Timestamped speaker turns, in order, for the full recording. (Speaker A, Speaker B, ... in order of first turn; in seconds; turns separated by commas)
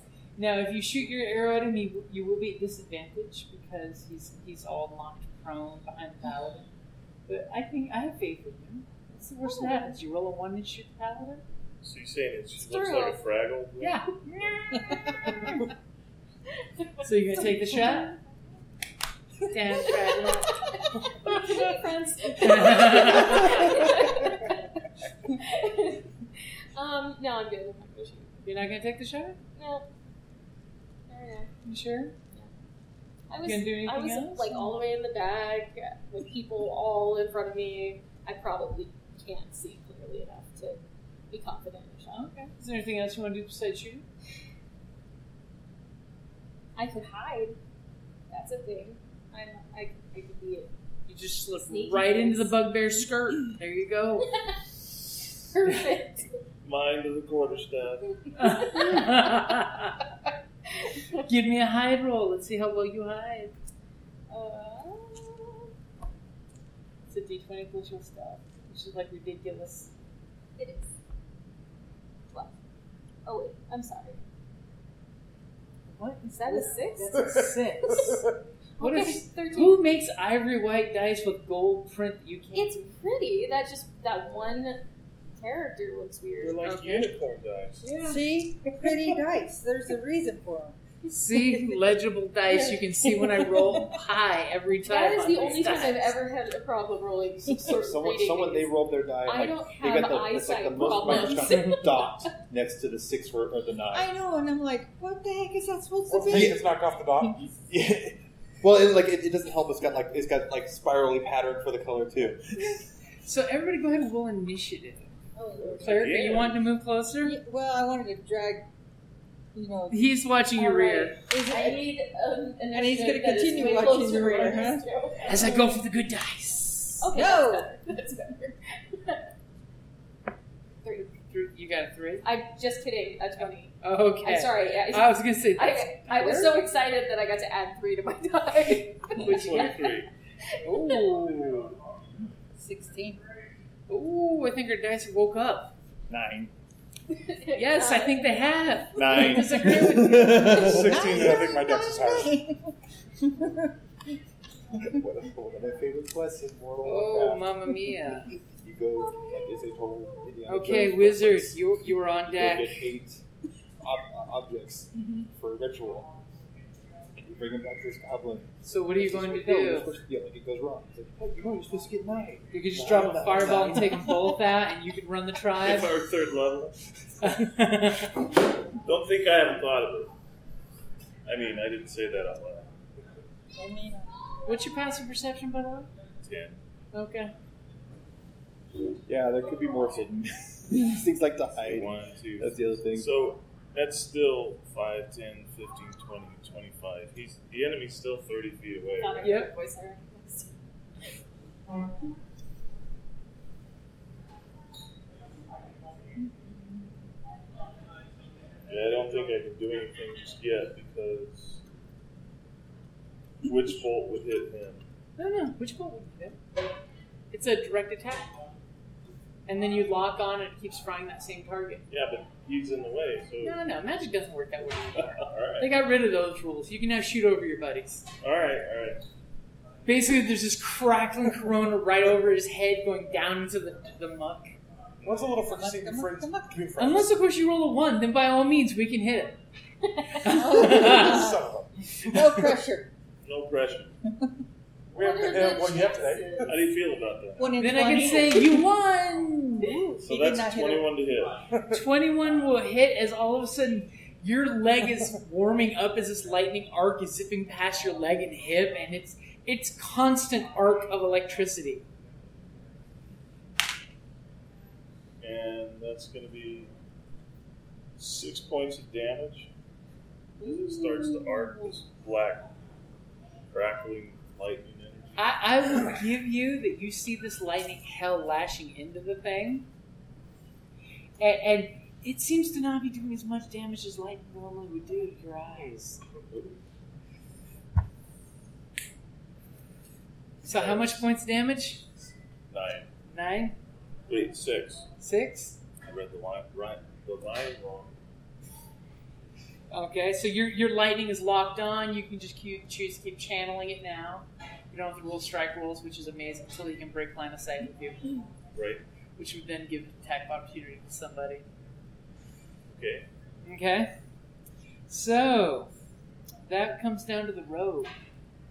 Speaker A: 0.4-6.7, Speaker A: 7.3-11.4, Speaker B: 11.8-14.6, Speaker C: 12.6-13.2, Speaker A: 13.8-15.6, Speaker C: 14.9-15.5, Speaker C: 16.8-18.2, Speaker A: 17.0-18.1, Speaker A: 19.5-20.6, Speaker C: 20.6-24.6, Speaker A: 22.4-23.7, Speaker C: 25.3-28.4, Speaker A: 28.4-29.4, Speaker C: 29.6-29.9, Speaker C: 31.1-31.5, Speaker A: 31.6-32.1, Speaker C: 33.3-42.3, Speaker A: 33.5-34.7, Speaker A: 42.1-44.1, Speaker C: 46.8-47.6, Speaker C: 48.3-50.7, Speaker A: 51.1-54.3, Speaker C: 51.5-52.8, Speaker C: 55.5-56.3, Speaker B: 56.6-58.1, Speaker C: 58.1-59.6, Speaker A: 58.4-60.0, Speaker C: 60.8-61.2, Speaker A: 61.3-63.5, Speaker C: 64.3-65.7, Speaker A: 67.1-69.9, Speaker C: 70.6-70.9, Speaker C: 73.2-74.2, Speaker A: 75.9-78.2, Speaker C: 76.4-77.3, Speaker C: 77.9-78.2, Speaker C: 78.8-79.8, Speaker A: 78.8-82.8, Speaker C: 82.5-84.8, Speaker C: 85.3-86.6, Speaker B: 86.4-87.8, Speaker A: 86.6-87.1, Speaker A: 87.8-88.2, Speaker D: 88.0-90.8, Speaker A: 91.1-96.2, Speaker C: 94.9-102.2, Speaker E: 97.6-104.1, Speaker D: 103.9-106.7, Speaker F: 106.1-107.5, Speaker E: 106.3-106.6, Speaker E: 107.7-112.4, Speaker A: 113.2-115.1, Speaker D: 115.4-116.1, Speaker A: 115.8-117.4, Speaker B: 115.8-116.6, Speaker D: 117.2-118.7, Speaker D: 119.5-120.1, Speaker A: 119.9-121.2, Speaker C: 120.6-125.7, Speaker D: 121.3-121.9, Speaker D: 122.7-124.9, Speaker A: 125.2-127.2, Speaker C: 127.0-129.2, Speaker D: 127.1-127.7, Speaker C: 130.8-131.1, Speaker A: 131.3-132.3, Speaker C: 132.2-139.8, Speaker A: 133.4-136.6, Speaker B: 139.2-140.1, Speaker A: 139.2-139.7, Speaker A: 140.6-141.7, Speaker C: 140.7-141.1, Speaker D: 142.6-143.2, Speaker A: 143.9-145.7, Speaker E: 146.1-146.5, Speaker C: 147.1-148.4, Speaker A: 147.5-150.6, Speaker E: 148.9-151.2, Speaker F: 150.2-152.4, Speaker D: 150.7-152.7, Speaker E: 154.8-157.7, Speaker A: 156.8-158.3, Speaker E: 158.6-163.2, Speaker C: 159.0-159.6, Speaker A: 160.5-162.7, Speaker E: 163.8-166.1, Speaker E: 167.2-174.1, Speaker A: 168.6-169.9, Speaker A: 172.5-175.9, Speaker F: 173.0-173.2, Speaker B: 175.6-176.8, Speaker A: 177.2-178.1, Speaker B: 178.8-180.1, Speaker B: 181.2-182.7, Speaker D: 183.5-184.1, Speaker A: 184.5-185.9, Speaker B: 186.2-186.6, Speaker A: 186.9-187.3, Speaker E: 189.1-193.1, Speaker B: 191.6-199.3, Speaker C: 199.0-200.6, Speaker A: 199.2-199.5, Speaker B: 208.7-211.6, Speaker B: 213.4-214.8, Speaker A: 215.2-216.4, Speaker A: 217.3-218.3, Speaker A: 219.5-221.8, Speaker B: 221.9-223.6, Speaker A: 223.4-228.1, Speaker B: 225.2-225.7, Speaker B: 228.2-229.0, Speaker A: 229.8-234.5, Speaker F: 235.0-237.1, Speaker D: 235.5-236.6, Speaker A: 236.8-239.4, Speaker A: 240.2-241.3, Speaker D: 240.2-241.4, Speaker F: 240.6-242.5, Speaker D: 242.0-242.9, Speaker B: 243.2-244.0, Speaker F: 244.9-246.6, Speaker C: 245.0-246.6, Speaker B: 246.4-247.5, Speaker D: 247.4-248.6, Speaker A: 247.6-249.8, Speaker D: 249.8-251.0, Speaker B: 250.0-251.4, Speaker F: 251.5-251.8, Speaker A: 251.7-261.8, Speaker B: 265.2-266.7, Speaker B: 268.0-269.5, Speaker B: 270.4-272.4, Speaker B: 273.5-275.3, Speaker A: 275.2-279.7, Speaker A: 281.2-286.0, Speaker F: 285.6-285.8, Speaker B: 290.4-291.0, Speaker A: 290.4-291.8, Speaker B: 292.5-292.9, Speaker A: 293.1-293.6, Speaker B: 294.1-294.9, Speaker A: 295.0-295.6, Speaker B: 295.8-297.9, Speaker A: 299.7-308.2, Speaker B: 308.5-308.8, Speaker A: 309.2-311.4, Speaker B: 312.7-313.1, Speaker A: 313.4-313.9, Speaker A: 314.9-315.7, Speaker A: 316.5-317.9